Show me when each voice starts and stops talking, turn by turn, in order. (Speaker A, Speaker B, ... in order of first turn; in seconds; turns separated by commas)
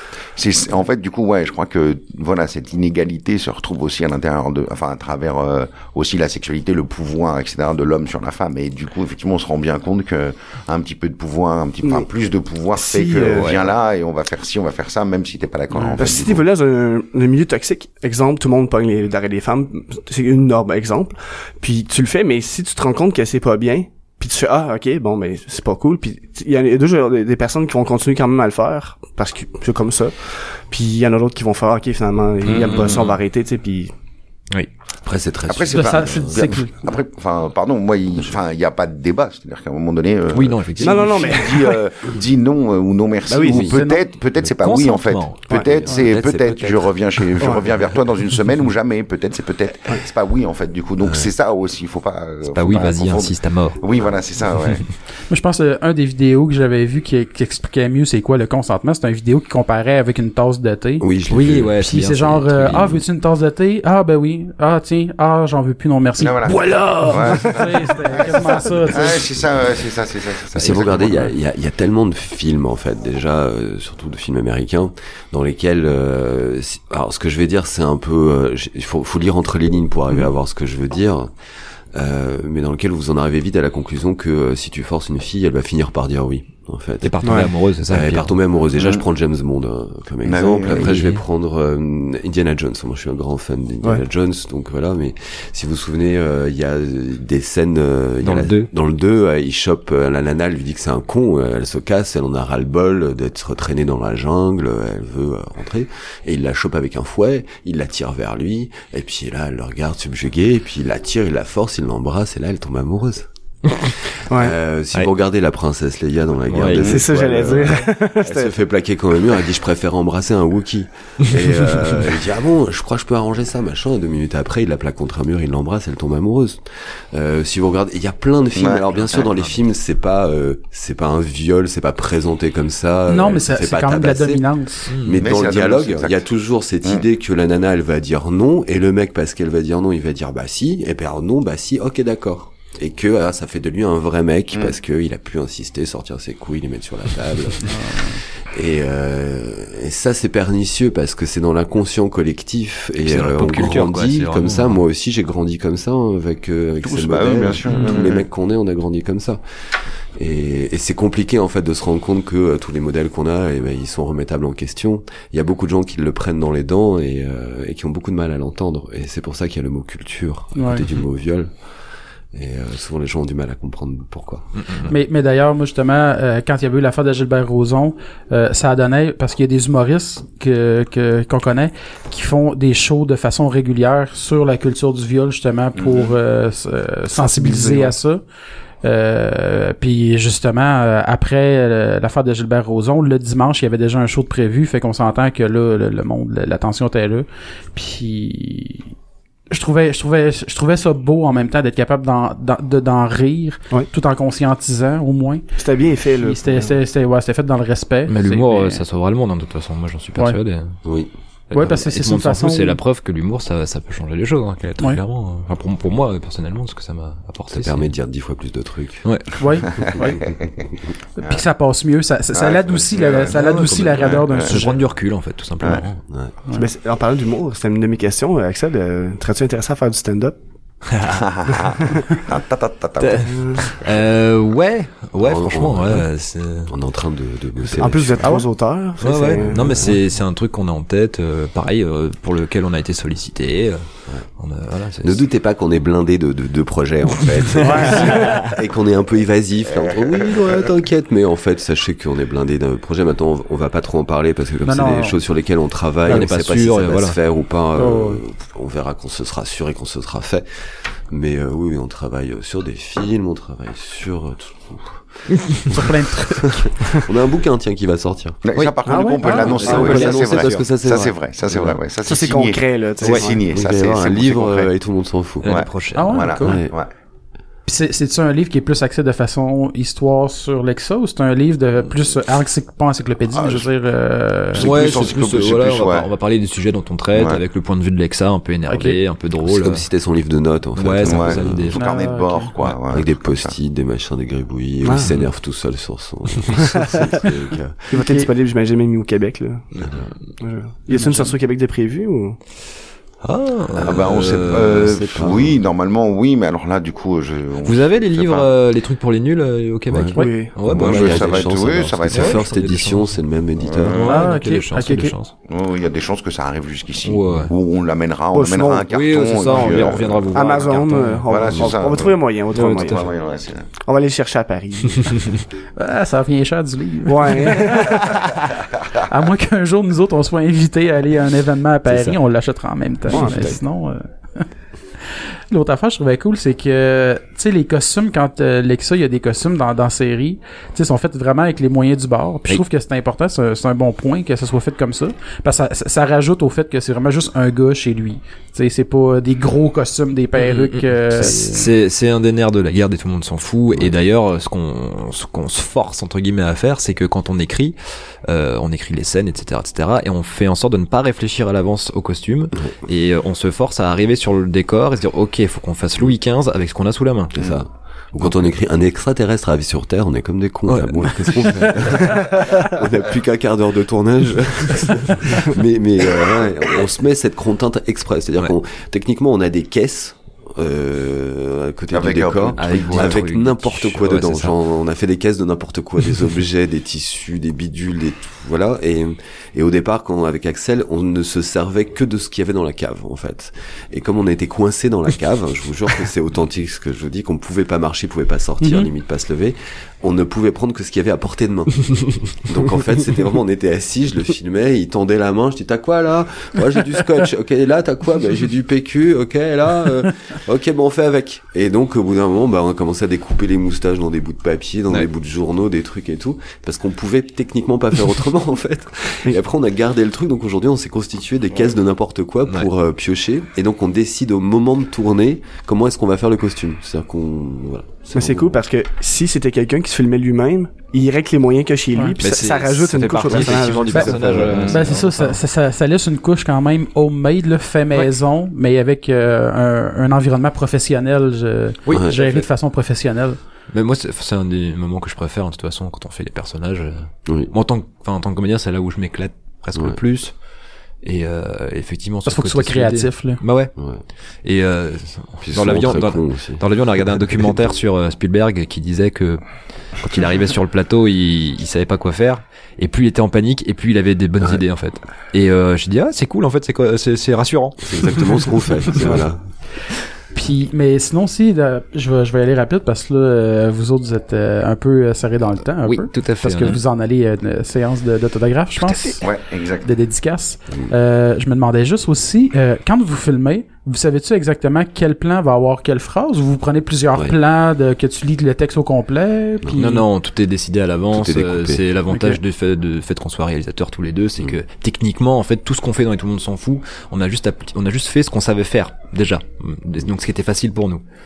Speaker A: 0.3-16.4, Speaker B: 12.8-13.7, Speaker C: 15.7-16.0, Speaker B: 15.9-33.9, Speaker C: 32.5-33.2, Speaker A: 32.5-33.0, Speaker D: 35.0-36.5, Speaker A: 35.5-54.9, Speaker E: 35.7-36.7, Speaker C: 40.3-41.5, Speaker B: 40.8-41.8, Speaker B: 43.3-43.8, Speaker D: 43.5-43.8, Speaker E: 43.6-44.0, Speaker C: 44.4-46.3, Speaker D: 45.9-46.9, Speaker D: 51.0-51.3, Speaker C: 52.5-53.8, Speaker C: 54.5-54.9, Speaker E: 55.3-61.0, Speaker D: 61.0-61.8, Speaker C: 61.3-63.0, Speaker E: 61.8-69.2, Speaker A: 66.2-71.3, Speaker C: 66.5-67.5, Speaker D: 70.5-81.3, Speaker D: 81.9-87.3, Speaker C: 87.0-88.3, Speaker B: 87.2-87.5, Speaker D: 87.9-159.4, Speaker A: 88.8-89.0, Speaker A: 90.2-90.9, Speaker C: 90.7-91.2, Speaker C: 98.2-98.7, Speaker B: 114.3-114.5, Speaker C: 116.5-117.0, Speaker B: 116.7-118.5, Speaker A: 128.6-129.3, Speaker C: 129.1-129.5, Speaker E: 133.1-134.9, Speaker C: 134.9-135.3, Speaker A: 135.2-136.2, Speaker E: 147.7-148.2, Speaker C: 153.1-154.8, Speaker A: 156.8-158.2, Speaker C: 157.7-158.0, Speaker D: 160.2-171.5, Speaker E: 170.5-170.9, Speaker D: 172.3-174.5, Speaker C: 174.6-174.9, Speaker E: 174.9-188.2, Speaker A: 185.7-186.2, Speaker B: 187.1-187.9, Speaker E: 188.8-198.9, Speaker E: 199.5-205.5, Speaker B: 205.6-206.7, Speaker E: 206.2-208.8, Speaker C: 208.1-210.8, Speaker D: 210.8-211.1, Speaker C: 211.5-217.8, Speaker E: 211.5-212.8, Speaker D: 217.5-219.1, Speaker C: 219.0-219.3, Speaker E: 219.4-220.2, Speaker A: 219.7-220.4, Speaker E: 221.2-224.8, Speaker A: 222.3-223.4, Speaker C: 223.3-226.0, Speaker A: 223.9-224.7, Speaker B: 226.5-230.4, Speaker C: 230.9-231.7, Speaker A: 231.1-233.7, Speaker B: 231.8-232.0, Speaker C: 233.0-236.7, Speaker B: 233.3-233.7, Speaker D: 235.2-236.1, Speaker D: 236.7-238.3, Speaker B: 237.7-239.9, Speaker E: 238.2-238.5, Speaker C: 239.0-243.8, Speaker C: 244.4-245.2, Speaker D: 245.0-260.4, Speaker C: 247.2-248.6, Speaker E: 247.6-248.2, Speaker E: 254.6-255.2, Speaker C: 256.1-257.2, Speaker E: 257.8-258.2, Speaker D: 261.1-268.4, Speaker E: 265.6-267.0, Speaker A: 268.4-274.7, Speaker C: 268.5-270.1, Speaker B: 268.9-270.4, Speaker E: 268.9-269.5, Speaker D: 269.5-271.8, Speaker B: 272.1-273.4, Speaker C: 273.0-273.3, Speaker D: 273.5-275.6, Speaker C: 275.4-276.3, Speaker A: 275.4-276.9, Speaker E: 275.9-276.6, Speaker D: 276.4-276.7, Speaker E: 277.6-284.7, Speaker A: 283.3-283.7, Speaker A: 284.5-286.1, Speaker C: 284.5-289.9, Speaker A: 287.1-287.4, Speaker E: 288.7-289.0, Speaker D: 289.4-291.8, Speaker C: 290.7-291.8, Speaker A: 291.0-293.5, Speaker E: 291.7-292.5, Speaker D: 292.6-297.9, Speaker B: 294.8-295.1, Speaker B: 296.7-297.2, Speaker B: 297.9-299.7, Speaker E: 297.9-298.3, Speaker D: 299.8-300.1, Speaker B: 300.4-302.4, Speaker E: 300.9-301.3, Speaker C: 303.2-305.6, Speaker A: 303.8-308.5, Speaker C: 307.6-313.2, Speaker D: 309.9-314.2, Speaker E: 310.1-310.4, Speaker B: 310.1-310.6, Speaker A: 310.6-312.4, Speaker A: 313.6-314.2, Speaker C: 313.8-315.3, Speaker E: 314.1-315.1, Speaker A: 315.5-323.7, Speaker C: 317.0-317.5, Speaker B: 318.3-318.9, Speaker C: 318.9-321.7, Speaker B: 320.3-323.1, Speaker C: 322.5-323.1, Speaker B: 323.8-325.2, Speaker C: 325.0-325.4, Speaker E: 325.8-328.4, Speaker B: 327.1-328.1, Speaker E: 328.9-334.4, Speaker C: 331.9-332.2, Speaker B: 333.1-333.6, Speaker E: 335.1-351.7, Speaker C: 350.3-357.7, Speaker C: 358.2-367.3, Speaker D: 367.3-428.6, Speaker C: 368.2-368.4, Speaker C: 370.7-372.4, Speaker A: 381.9-383.2, Speaker C: 382.6-384.5, Speaker E: 398.6-398.9, Speaker B: 428.1-434.8, Speaker C: 432.2-435.4, Speaker D: 433.3-434.8, Speaker E: 433.9-443.4, Speaker A: 434.6-434.9, Speaker C: 441.9-442.2, Speaker D: 441.9-442.4, Speaker C: 443.7-450.3, Speaker D: 447.2-447.5, Speaker C: 451.0-453.7, Speaker E: 452.2-453.4, Speaker C: 454.4-468.4, Speaker D: 455.4-456.6, Speaker D: 457.1-457.5, Speaker D: 467.8-469.4, Speaker E: 470.3-479.3, Speaker C: 475.8-476.8, Speaker C: 478.8-479.2, Speaker A: 479.2-479.9, Speaker E: 479.8-490.1, Speaker C: 489.7-501.0, Speaker D: 491.1-491.8, Speaker E: 492.1-492.4